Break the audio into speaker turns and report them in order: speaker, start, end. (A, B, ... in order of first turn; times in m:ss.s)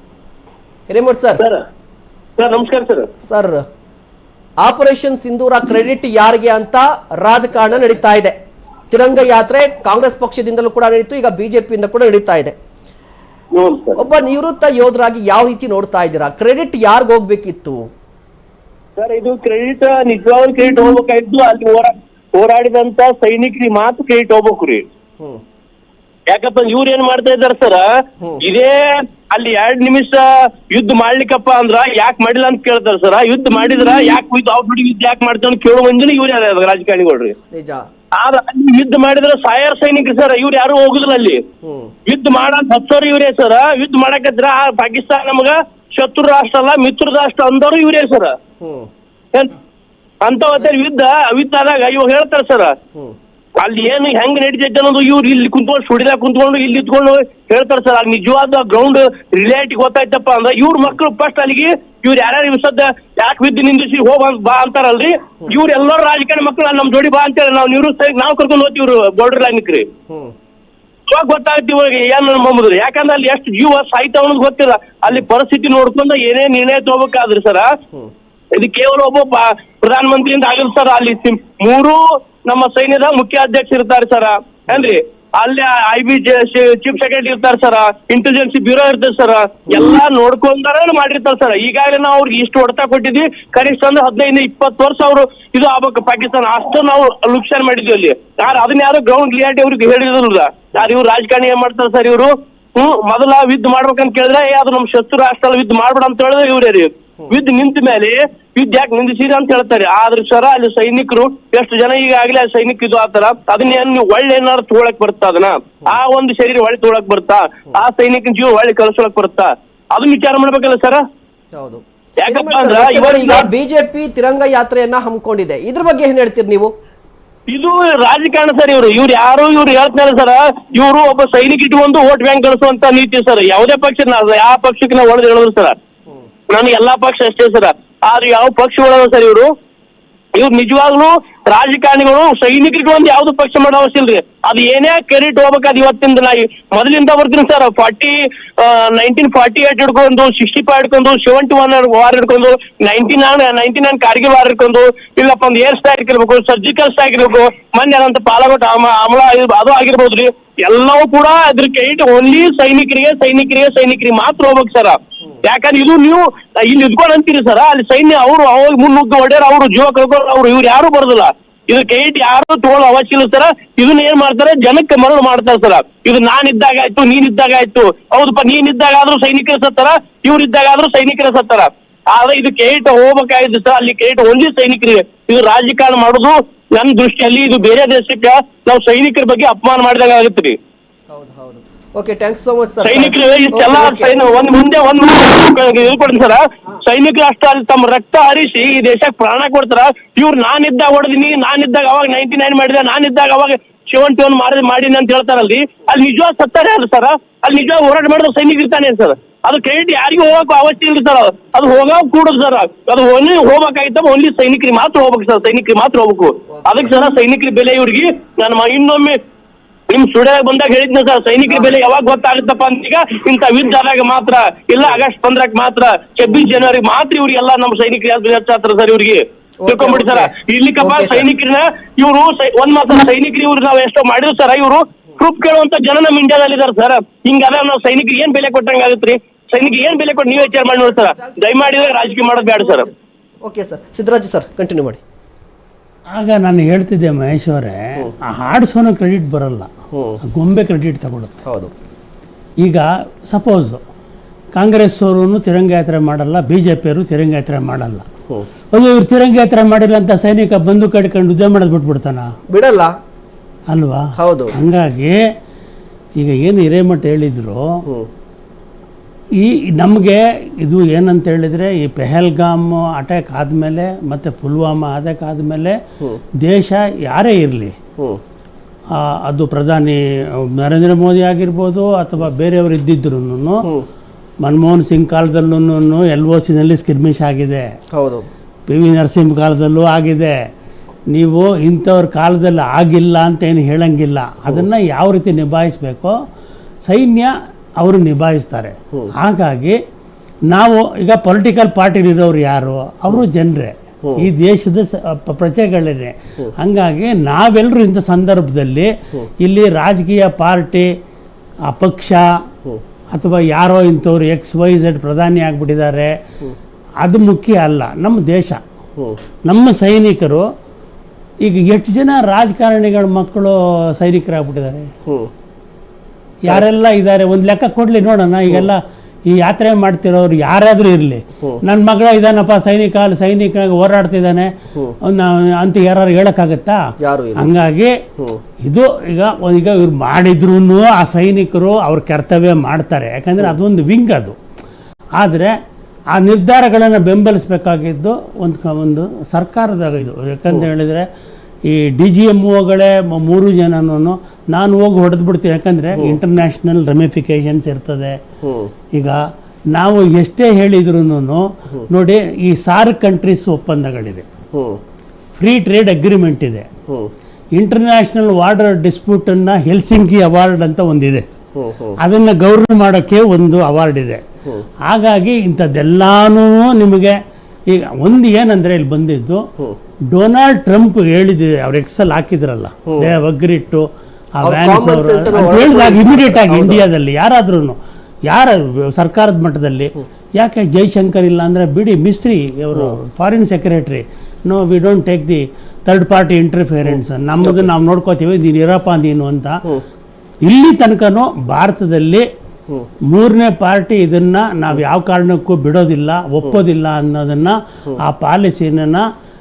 0:00.9-0:01.4 A
0:02.4-0:03.1 B
0:03.3-0:03.6 A
0:04.6-0:08.4 A
0:08.9-0:12.6 A
0:13.5-0:14.0 B
0:14.0-0:17.9 A
0:19.0-0:24.9 B
0:26.3-0:27.9 B
0:28.4-0:37.4 B
0:37.5-0:37.9 A
0:38.2-0:41.4 B
0:41.6-0:41.9 A
0:42.1-0:48.4 B
0:48.6-0:48.9 A
0:50.2-0:52.8 B
0:53.6-1:09.9 B
1:10.1-1:10.3 A
1:11.1-1:17.7 B
1:18.5-2:01.0 B
2:01.5-2:06.7 A
2:02.2-2:03.5 B
2:07.5-2:15.8 B
2:16.5-2:19.5 B
2:20.4-3:10.6 B
3:11.1-3:14.2 A
3:12.8-3:39.2 B
3:36.5-3:36.9 A
3:39.9-4:02.9 B
3:49.6-3:51.3 A
3:59.6-4:02.9 A
4:03.4-4:05.0 A
4:06.1-4:09.7 C
4:09.9-4:10.2 A
4:10.3-4:11.4 C
4:11.4-4:11.7 A
4:12.6-4:13.8 C
4:14.6-4:18.1 C
4:18.7-4:22.3 C
4:22.5-4:22.9 A
4:23.7-4:25.2 C
4:24.2-4:24.6 A
4:26.2-4:27.8 C
4:29.4-4:35.8 C
4:36.4-4:37.8 C
4:39.0-4:43.7 C
4:44.4-4:47.7 C
4:47.9-4:48.3 A
4:48.7-4:50.4 C
4:51.1-4:56.1 C
4:56.9-4:59.8 C
5:00.5-5:10.9 C
5:11.7-5:12.2 C
5:13.1-5:16.1 C
5:17.0-5:18.6 C
5:19.5-5:20.4 C
5:21.4-5:24.9 C
5:26.4-5:34.5 C
5:35.0-5:36.8 C
5:37.0-5:37.5 A
5:37.4-5:38.0 C
5:38.6-5:44.4 C
5:45.2-5:45.5 C
5:46.2-5:51.1 C
5:51.7-5:58.2 C
5:58.4-5:58.7 A
5:59.7-6:04.3 C
6:04.5-6:04.8 A
6:05.4-6:06.7 C
6:07.6-6:11.2 C
6:11.6-6:11.9 A
6:12.0-6:14.2 C
6:14.8-6:17.2 C
6:17.7-6:19.4 C
6:20.1-6:23.9 C
6:22.9-6:23.1 A
6:24.4-6:39.7 C
6:24.4-6:26.8 A
6:40.4-6:42.3 C
6:43.1-6:49.0 C